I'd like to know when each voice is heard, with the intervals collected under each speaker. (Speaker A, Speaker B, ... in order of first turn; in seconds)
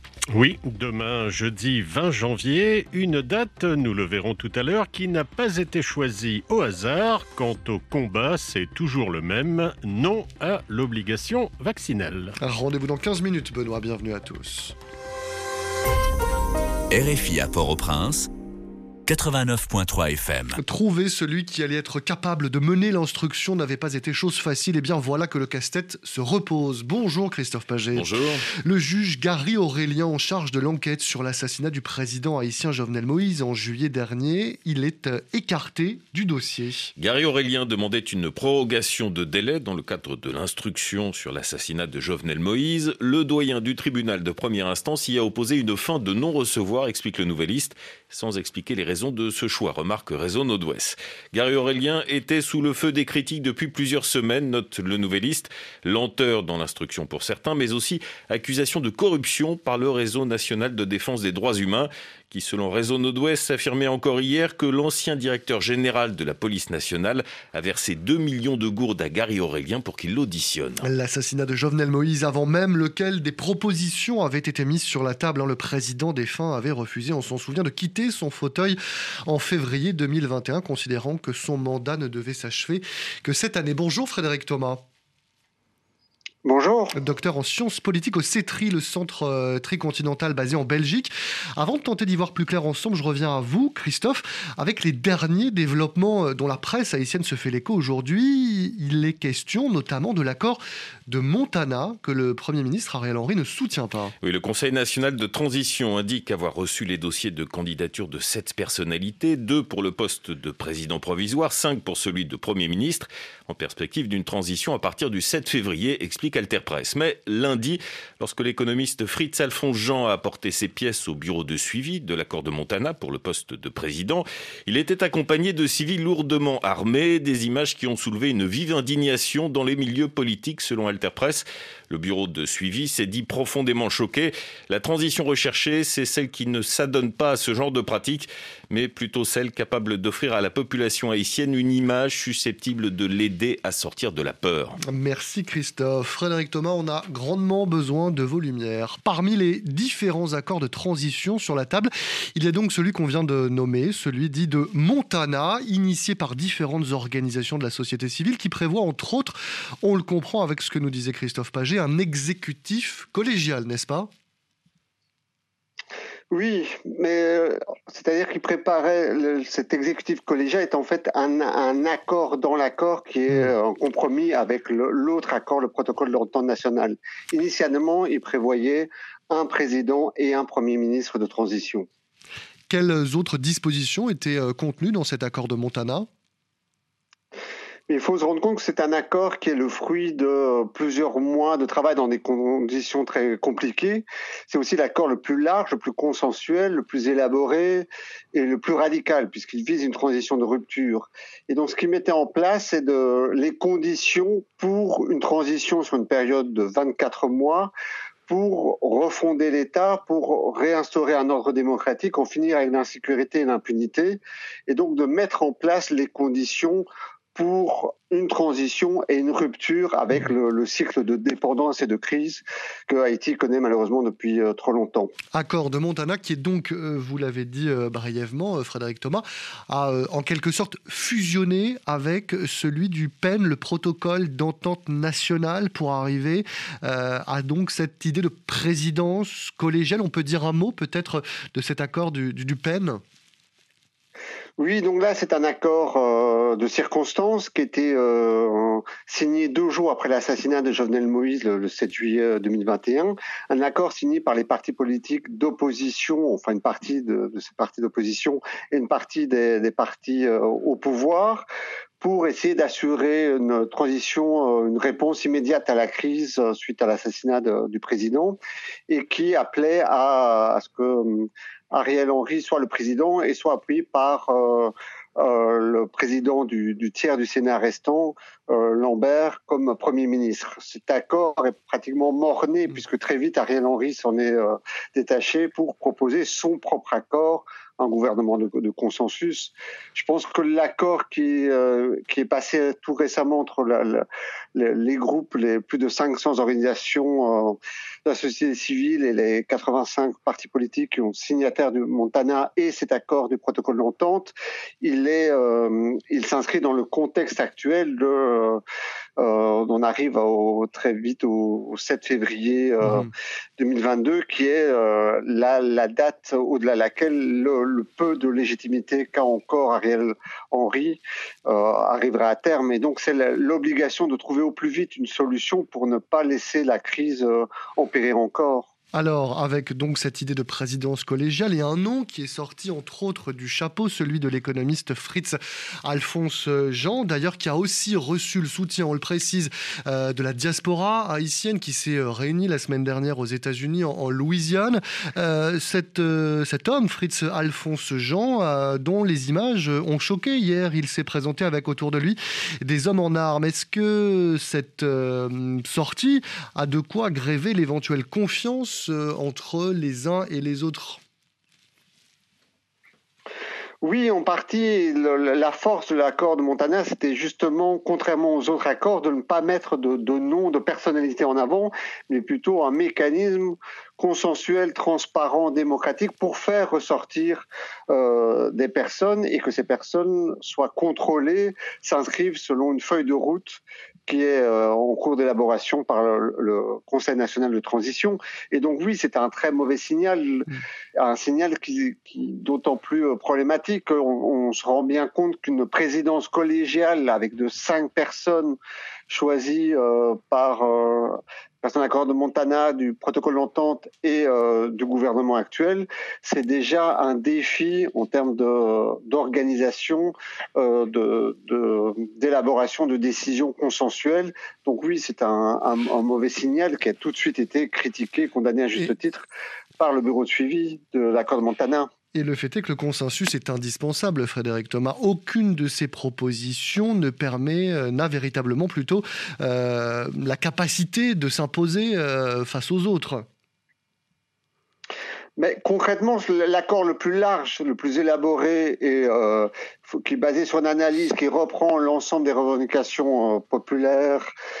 Speaker A: 0.3-12.3
Speaker B: 12.4-14.7, 20.6-28.1, 28.6-36.9, 70.8-84.8, 86.9-104.1, 144.9-164.1, 182.7-186.1, 225.3-243.0, 328.9-361.0, 422.1-433.2
Speaker C: 16.9-18.3, 19.1-20.6
Speaker D: 27.9-28.5, 37.0-70.8, 104.2-144.8
Speaker E: 86.4-86.9, 166.3-181.9, 187.9-207.7, 208.3-225.1, 244.6-261.5, 262.0-268.4, 268.9-294.0, 294.6-308.6, 309.2-328.7, 363.8-398.6, 399.1-419.2, 419.8-421.9, 435.4-444.3